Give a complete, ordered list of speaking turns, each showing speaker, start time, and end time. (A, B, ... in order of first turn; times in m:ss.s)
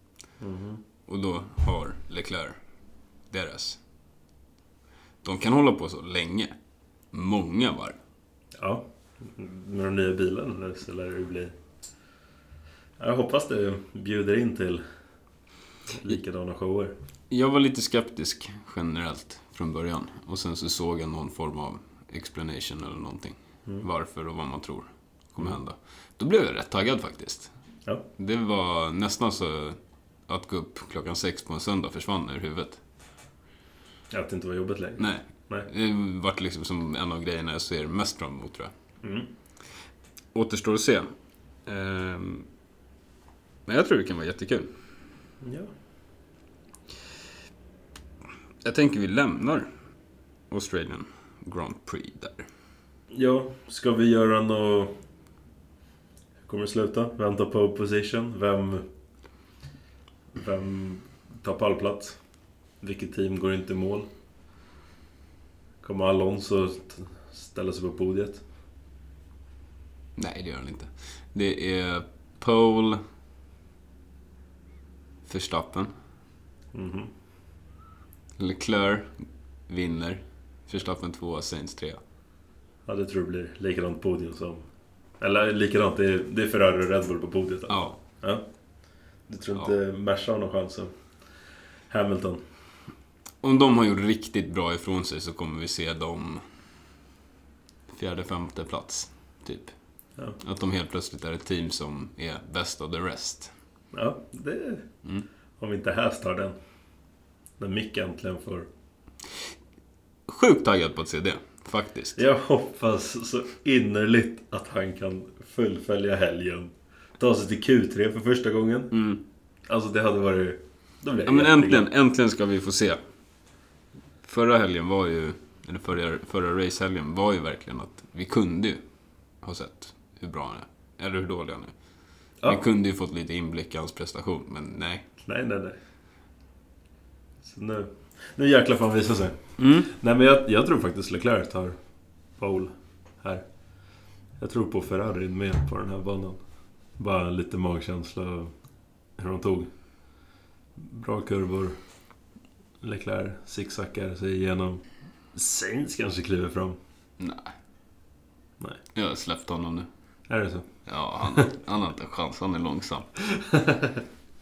0:00.4-0:00.8 A
0:01.1-0:02.6 B
0:03.3-0:03.8 B
0:05.2-0:06.5 B
0:07.1-0:08.0 B
0:08.6-0:11.5 A
0:13.0-0:14.8 A
0:15.9-0:16.9 A
0:17.3-0:27.5 B
0:28.2-0:32.8 B
0:34.1-0:35.7 A
0:35.0-0:38.7 B
0:39.0-0:39.3 A
0:40.3-0:41.1 B
0:41.6-0:42.4 B
0:43.7-0:44.7 B
0:45.4-0:45.7 A
0:48.6-0:49.7 B
0:50.5-0:52.4 B
0:53.1-0:54.9 A
0:56.4-0:58.8 A
1:00.3-1:02.2 A
1:02.8-1:04.1 A
1:05.8-1:08.4 A
1:10.2-1:13.0 B
1:15.3-1:15.9 B
1:16.7-1:17.1 A
1:18.4-1:22.0 B
1:22.8-1:24.7 A
1:25.2-1:28.4 A
1:27.7-1:28.0 B
1:29.3-1:30.9 A
1:31.9-1:32.4 A
1:33.4-1:36.4 B
1:37.9-1:39.7 B
1:40.4-1:43.5 B
1:43.9-1:44.8 A
1:45.6-1:46.6 A
1:47.6-1:48.7 A
1:50.3-1:52.2 B
1:52.2-1:59.0 A
1:58.9-1:59.2 B
1:59.7-2:01.8 A
2:01.3-2:03.0 B
2:04.2-2:08.8 B
2:09.4-2:11.7 B
2:12.4-2:15.0 B
2:15.2-2:15.8 A
2:17.4-2:21.8 A
2:19.6-2:19.9 B
2:22.4-2:23.4 A
2:24.4-2:26.4 A
2:27.0-2:28.5 A
2:29.2-2:29.7 A
2:30.8-2:31.8 A
2:32.8-2:36.8 A
2:37.2-2:37.5 B
2:38.9-2:39.9 B
2:40.3-2:40.7 A
2:40.8-2:43.2 B
2:43.2-2:44.0 A